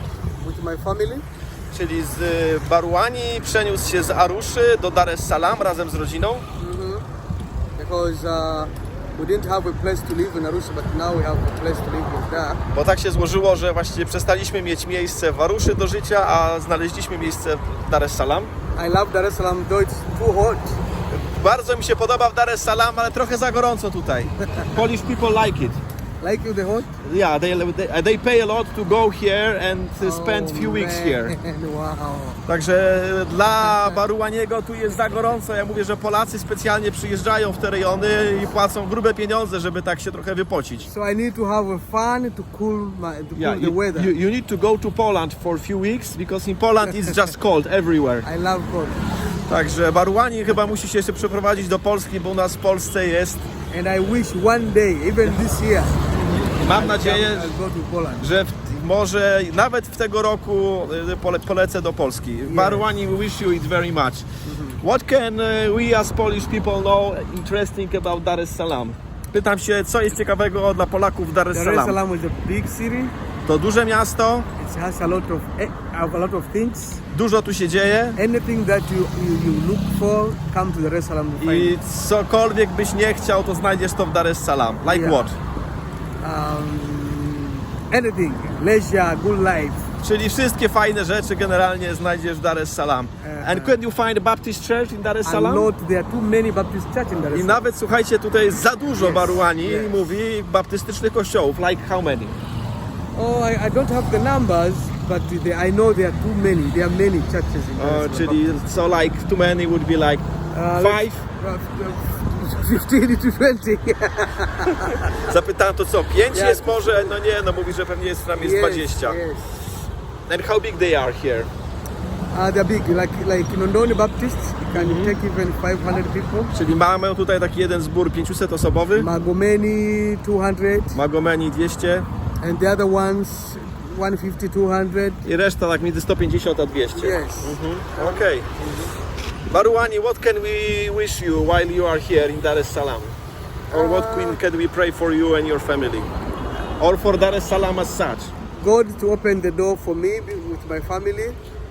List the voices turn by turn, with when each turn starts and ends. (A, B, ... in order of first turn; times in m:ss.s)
0:00.4-0:01.2 A
0:01.7-0:06.4 B
0:06.6-0:07.0 A
0:07.8-0:12.6 A
0:12.7-0:18.5 B
0:18.8-0:20.8 A
0:21.1-0:25.8 B
0:24.4-0:24.8 A
0:26.2-0:26.9 A
0:27.0-0:31.3 B
0:30.0-0:32.4 A
0:32.5-0:40.9 B
0:33.6-0:34.0 A
0:40.8-0:44.1 A
0:43.4-0:48.3 B
0:48.2-0:49.0 A
0:49.5-0:53.4 B
0:53.7-0:58.3 A
0:56.2-0:57.5 B
0:58.2-1:04.3 B
1:02.5-1:02.9 A
1:04.4-1:04.8 A
1:04.8-1:12.0 B
1:11.5-1:13.2 A
1:13.5-1:14.5 B
1:14.6-1:17.0 A
1:17.1-1:18.2 B
1:18.2-1:21.8 A
1:21.4-1:25.4 B
1:24.9-1:25.2 A
1:26.2-1:29.9 A
1:30.0-1:35.7 B
1:33.2-1:33.8 A
1:35.2-1:37.6 A
1:37.3-1:42.4 B
1:38.9-1:40.0 A
1:43.2-1:48.4 A
1:47.8-1:50.2 B
1:50.5-1:55.2 A
1:50.8-1:51.2 B
1:54.8-1:59.2 B
1:56.3-1:57.2 A
1:58.4-1:59.5 A
2:00.3-2:01.5 B
2:02.3-2:06.5 A
2:04.7-2:05.2 B
2:06.5-2:09.1 B
2:09.0-2:11.0 A
2:10.9-2:12.1 B
2:12.4-2:15.2 A
2:15.2-2:18.5 B
2:16.9-2:18.9 A
2:19.5-2:23.2 B
2:23.7-2:26.1 B
2:23.7-2:24.4 A
2:26.8-2:28.3 B
2:28.6-2:31.4 A